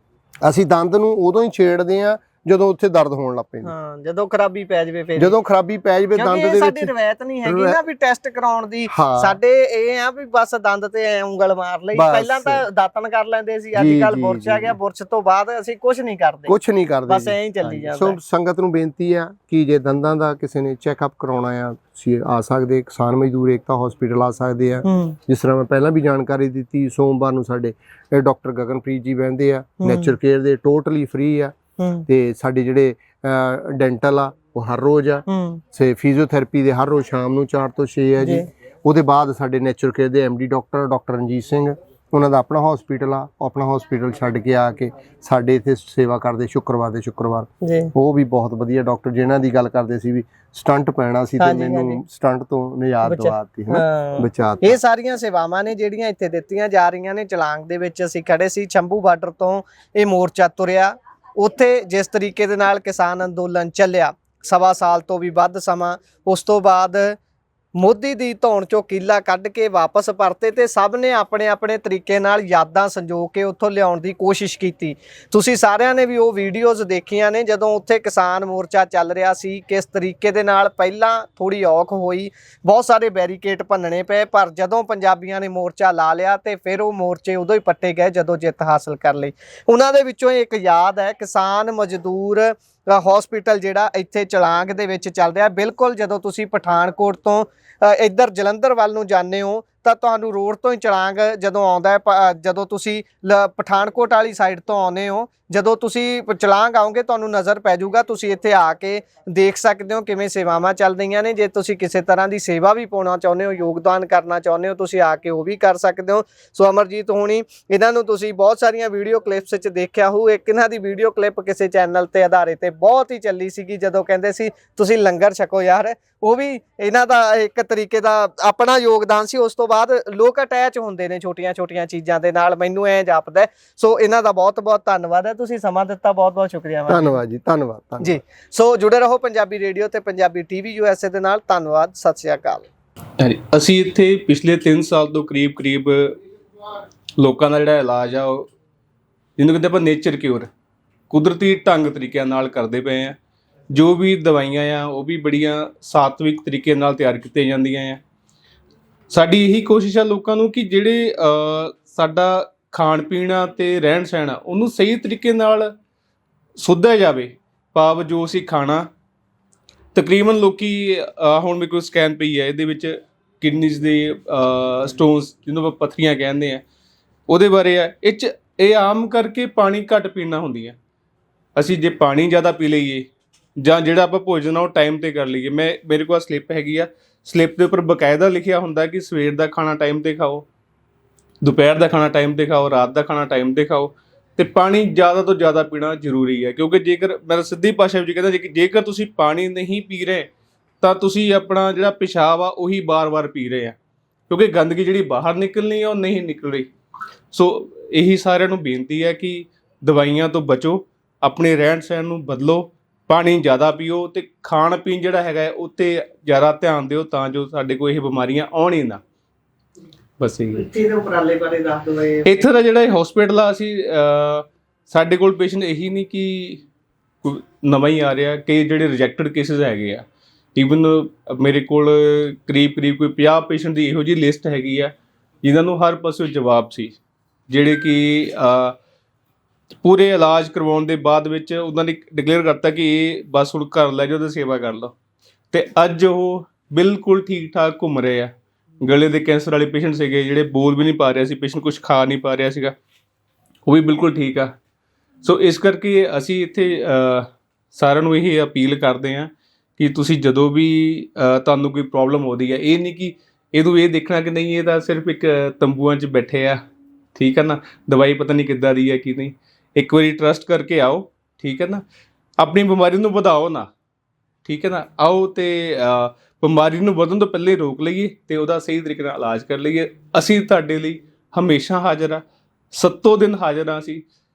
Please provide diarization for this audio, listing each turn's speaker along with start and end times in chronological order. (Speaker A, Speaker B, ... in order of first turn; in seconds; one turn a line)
Speaker A: 0.4-3.7
Speaker B: 3.6-5.3
Speaker A: 5.2-6.9
Speaker B: 6.2-16.5
Speaker A: 7.4-7.8
Speaker A: 8.9-9.4
Speaker A: 11.9-12.6
Speaker A: 13.7-14.8
Speaker A: 16.5-31.6
Speaker B: 17.1-18.2
Speaker B: 24.8-25.2
Speaker B: 29.8-30.2
Speaker B: 31.8-32.0
Speaker A: 32.1-54.8
Speaker B: 35.3-35.6
Speaker B: 38.2-38.5
Speaker B: 47.6-47.9
Speaker B: 51.4-52.0
Speaker B: 53.0-67.2
Speaker B: 67.7-137.2
Speaker A: 136.9-138.1
Speaker B: 138.0-142.7
Speaker C: 143.2-146.2
Speaker C: 147.2-148.5
Speaker C: 149.4-150.5
Speaker C: 151.1-153.2
Speaker C: 153.7-158.0
Speaker C: 159.1-165.7
Speaker C: 166.6-168.9
Speaker C: 169.9-176.6
Speaker C: 177.3-180.8
Speaker C: 181.6-183.1
Speaker C: 183.6-190.4
Speaker C: 191.4-200.3
Speaker C: 200.8-203.8
Speaker C: 204.3-206.7
Speaker C: 207.3-219.0
Speaker C: 220.2-220.7
Speaker B: 220.5-222.4
Speaker C: 222.2-226.6
Speaker C: 227.2-230.0
Speaker C: 230.6-237.0
Speaker C: 237.5-238.8
Speaker C: 239.8-244.9
Speaker C: 245.5-252.7
Speaker C: 253.7-254.5
Speaker C: 255.2-266.6
Speaker C: 267.1-271.8
Speaker C: 272.4-273.7
Speaker C: 274.4-284.0